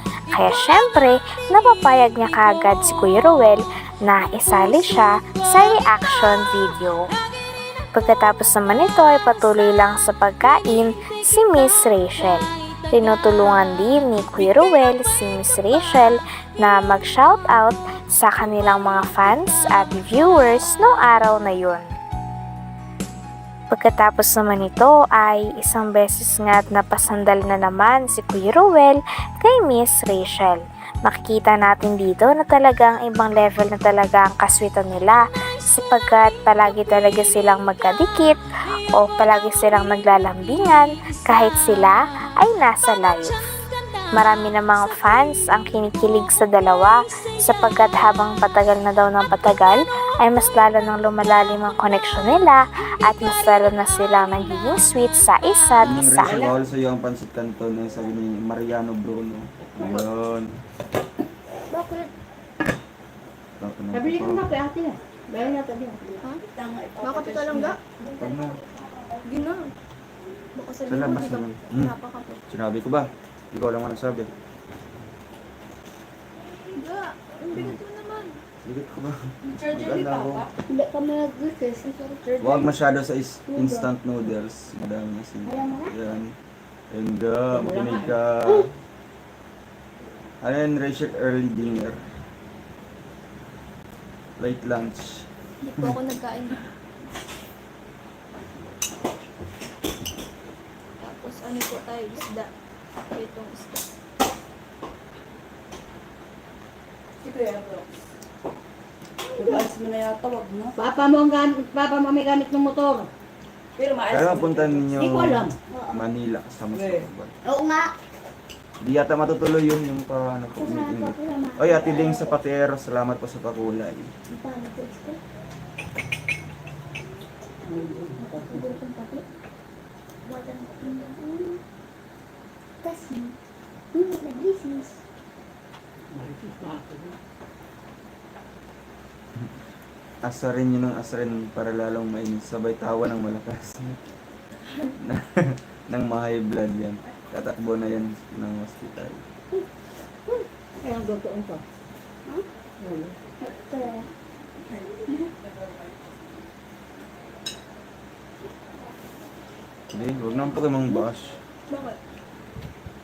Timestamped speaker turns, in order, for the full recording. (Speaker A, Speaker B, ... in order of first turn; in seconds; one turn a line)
Speaker A: 0.3-7.1
Speaker A: 7.9-21.9
Speaker A: 23.7-38.4
Speaker A: 39.0-43.4
Speaker A: 44.1-56.4
Speaker B: 55.8-60.5
Speaker C: 56.2-56.5
Speaker D: 61.7-62.1
Speaker B: 63.6-64.4
Speaker C: 63.9-67.8
Speaker E: 67.0-67.8
Speaker D: 68.2-68.6
Speaker B: 68.2-68.6
Speaker E: 69.2-69.7
Speaker E: 70.5-72.4
Speaker B: 70.8-72.0
Speaker B: 72.5-74.3
Speaker E: 76.7-78.4
Speaker B: 77.5-77.8
Speaker B: 78.6-80.5
Speaker C: 79.5-80.4
Speaker D: 80.7-82.6
Speaker B: 82.4-86.3
Speaker D: 83.5-83.9
Speaker D: 85.5-85.9
Speaker B: 86.9-88.7
Speaker C: 87.5-88.1
Speaker B: 90.4-92.1
Speaker B: 94.4-95.3
Speaker E: 95.6-96.6
Speaker E: 101.0-102.5
Speaker E: 103.1-103.8
Speaker C: 107.2-107.8
Speaker D: 109.3-109.7
Speaker C: 109.4-113.1
Speaker C: 113.8-115.5
Speaker B: 114.1-117.3
Speaker D: 115.7-116.0
Speaker C: 116.8-117.0
Speaker D: 117.4-117.9
Speaker B: 118.8-124.1
Speaker D: 120.6-122.4
Speaker D: 124.3-125.2
Speaker C: 127.7-128.7
Speaker D: 128.2-129.2
Speaker D: 130.2-131.6
Speaker D: 132.8-133.3
Speaker D: 133.9-135.0
Speaker C: 136.1-137.2
Speaker B: 140.2-144.0
Speaker B: 145.0-149.2
Speaker C: 150.3-151.6
Speaker C: 152.8-153.2
Speaker D: 153.4-154.1
Speaker B: 159.9-161.4
Speaker E: 161.7-162.0